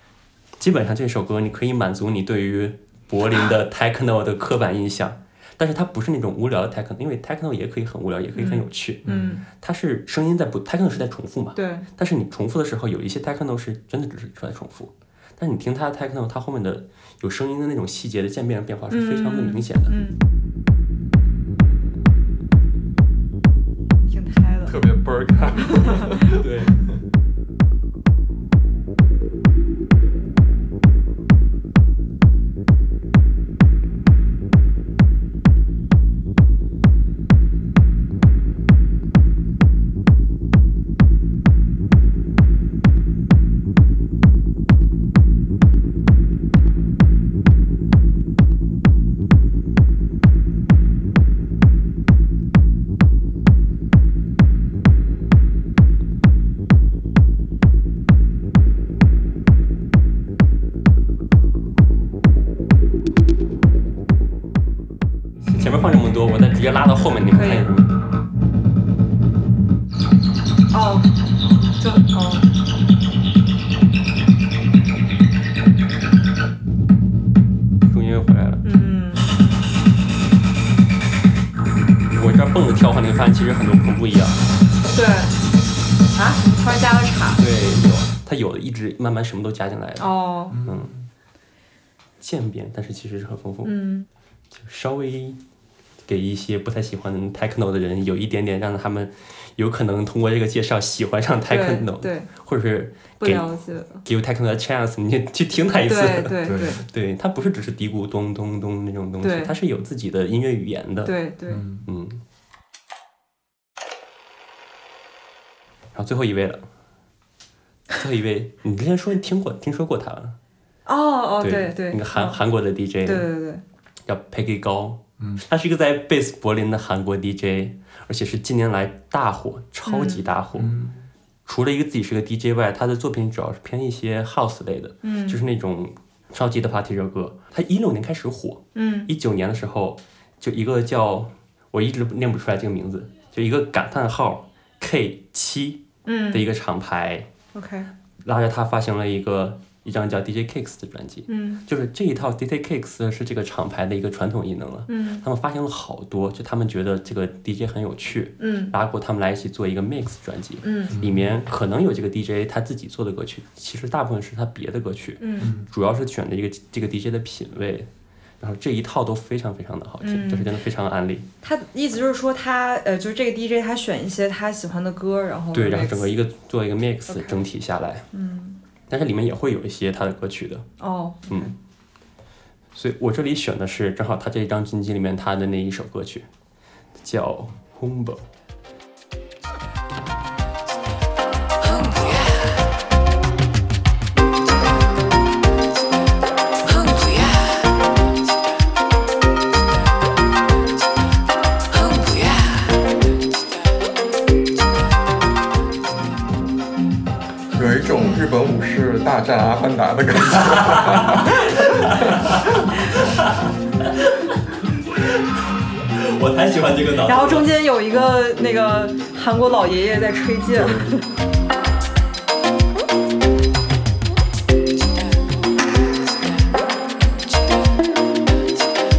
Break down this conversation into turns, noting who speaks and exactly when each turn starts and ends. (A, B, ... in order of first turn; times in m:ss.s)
0:00.6-0:19.9 A
0:08.4-0:09.4 B
0:09.0-0:09.4 C
0:11.6-0:11.9 B
0:18.9-0:20.2 B
0:24.1-0:24.8 B
0:24.7-0:26.4 C
0:25.7-0:26.1 B
0:26.2-0:26.8 A
1:05.4-1:07.9 A
1:07.3-1:07.7 B
1:10.7-1:11.1 B
1:11.8-1:12.5 B
1:17.8-1:18.6 A
1:18.6-1:19.3 B
1:22.1-1:24.4 A
1:24.9-1:25.4 B
1:26.1-1:27.4 B
1:27.4-1:30.1 A
1:30.0-1:30.6 B
1:30.5-1:31.1 C
1:30.6-1:30.9 A
1:32.2-1:33.8 A
1:33.6-1:34.1 B
1:34.5-1:35.4 A
1:36.0-1:43.5 A
1:41.5-1:42.3 B
1:43.2-1:44.0 B
1:44.0-1:51.2 A
1:45.9-1:46.8 B
1:46.5-1:46.8 C
1:49.2-1:49.5 B
1:51.1-1:51.6 B
1:51.5-1:51.9 C
1:51.9-1:52.2 A
1:55.9-1:56.7 A
1:57.9-2:00.4 A
2:00.9-2:02.4 B
2:01.4-2:03.3 A
2:03.0-2:03.6 B
2:04.1-2:10.8 A
2:09.9-2:10.2 B
2:10.6-2:11.1 C
2:11.5-2:27.3 A
2:15.0-2:15.4 B
2:18.8-2:19.1 B
2:26.1-2:26.4 B
2:27.5-2:27.9 B
2:28.2-2:47.9 A
2:31.3-2:31.6 B
2:34.9-2:35.2 B
2:38.4-2:38.7 B
2:40.6-2:41.0 B
2:40.9-2:41.3 C
2:45.2-2:45.5 B
2:45.4-2:45.7 C
2:48.4-2:51.3 A
2:50.0-2:50.5 B
2:51.4-2:56.1 B
2:55.5-2:58.1 A
2:57.1-2:57.5 B
2:58.1-2:58.6 B
2:58.9-3:00.7 A
3:00.8-3:01.5 B
3:01.3-3:01.5 A
3:02.7-3:06.3 A
3:07.0-3:08.3 A
3:11.7-3:12.3 A
3:27.5-3:32.4 C
3:30.4-3:37.5 A
3:37.0-3:41.1 B
3:40.5-3:41.1 C